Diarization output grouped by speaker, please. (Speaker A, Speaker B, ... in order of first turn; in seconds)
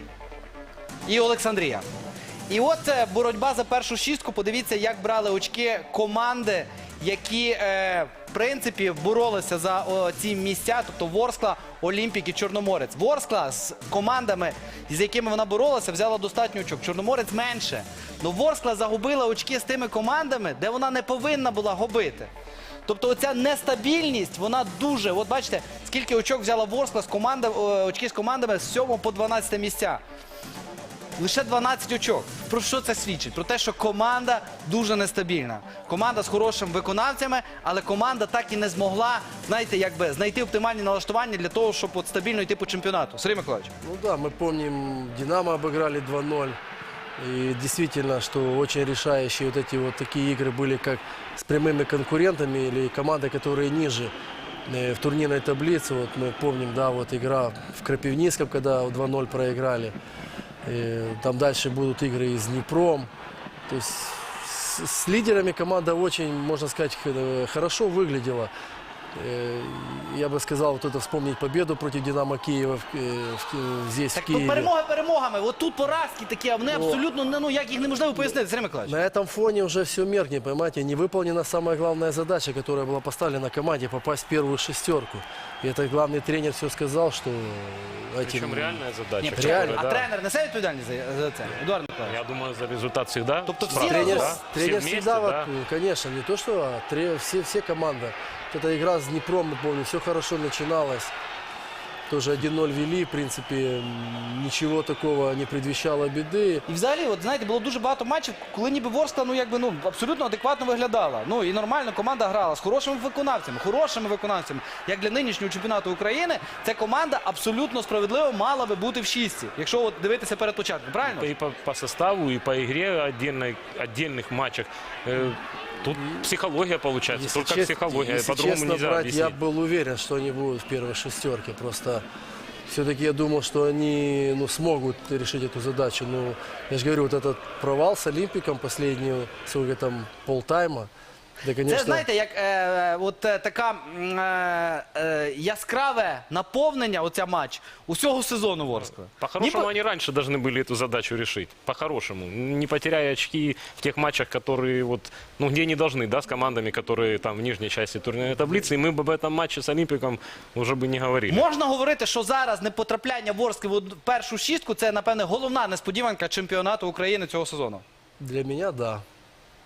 Speaker A: 1.1-1.9, 2.5-22.3, 22.9-30.0, 31.2-43.7, 74.1-79.0, 89.3-92.2, 93.5-94.4, 106.7-121.3, 141.6-149.7, 161.3-167.8
Speaker B: 43.8-46.6, 47.2-54.1, 54.6-59.9, 60.6-63.1, 63.7-68.5, 69.1-74.7, 76.7-77.0, 78.8-90.0, 93.7-101.1, 102.1-106.6, 127.1-132.0, 132.7-140.9, 141.4-142.1, 168.2-169.0
Speaker C: 88.2-89.9, 92.0-95.5, 121.0-129.4, 149.2-161.4